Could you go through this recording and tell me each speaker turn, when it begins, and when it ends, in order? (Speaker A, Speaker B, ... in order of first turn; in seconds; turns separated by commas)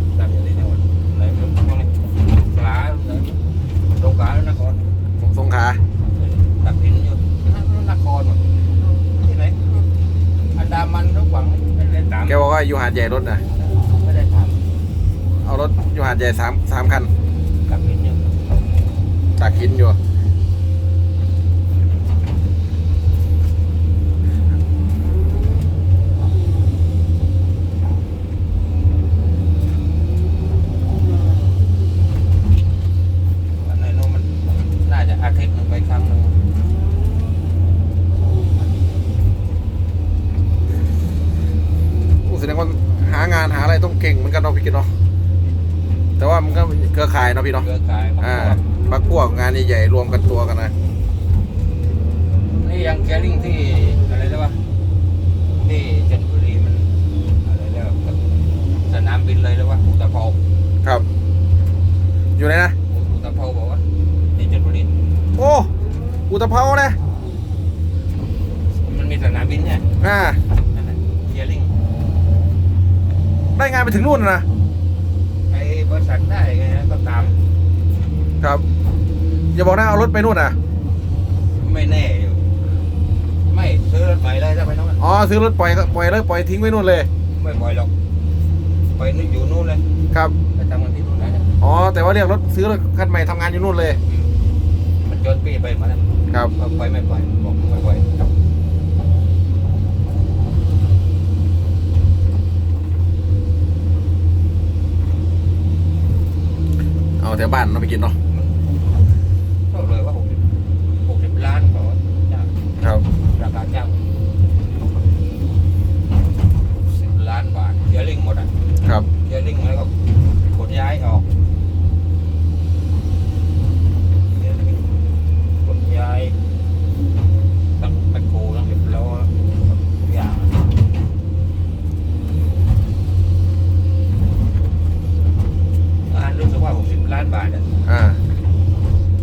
Speaker A: 0.1-4.9, Speaker B: 5.2-5.8, Speaker A: 6.1-9.8, Speaker A: 10.6-12.5, Speaker B: 12.3-13.4, Speaker A: 13.6-14.6, Speaker B: 15.3-17.1, Speaker A: 17.7-18.3, Speaker B: 19.4-20.0, Speaker A: 33.6-36.4, Speaker B: 42.2-44.9, Speaker B: 46.2-47.7, Speaker A: 47.2-48.6, Speaker B: 48.2-50.7, Speaker A: 52.5-54.7, Speaker A: 55.5-58.2, Speaker A: 58.8-60.4, Speaker B: 62.4-62.8, Speaker A: 62.9-64.9, Speaker B: 65.4-65.7, Speaker B: 66.3-67.0, Speaker A: 68.7-69.9, Speaker B: 70.0-70.4, Speaker A: 70.6-71.8, Speaker B: 73.5-74.5, Speaker A: 75.5-77.4, Speaker B: 79.5-80.6, Speaker A: 81.5-82.5, Speaker A: 83.5-85.0, Speaker B: 85.0-87.1, Speaker A: 87.3-87.9, Speaker A: 88.9-89.9, Speaker A: 90.5-91.5, Speaker B: 91.6-94.0, Speaker A: 94.1-94.3, Speaker A: 95.0-98.1, Speaker B: 107.2-108.2, Speaker A: 108.3-108.7, Speaker A: 109.7-110.5, Speaker A: 111.0-112.5, Speaker A: 113.1-114.2, Speaker A: 116.8-118.5, Speaker B: 118.8-119.1, Speaker A: 119.2-121.3, Speaker A: 124.3-125.0, Speaker A: 125.6-126.4, Speaker A: 127.8-130.7, Speaker A: 136.1-137.7, Speaker B: 137.9-138.2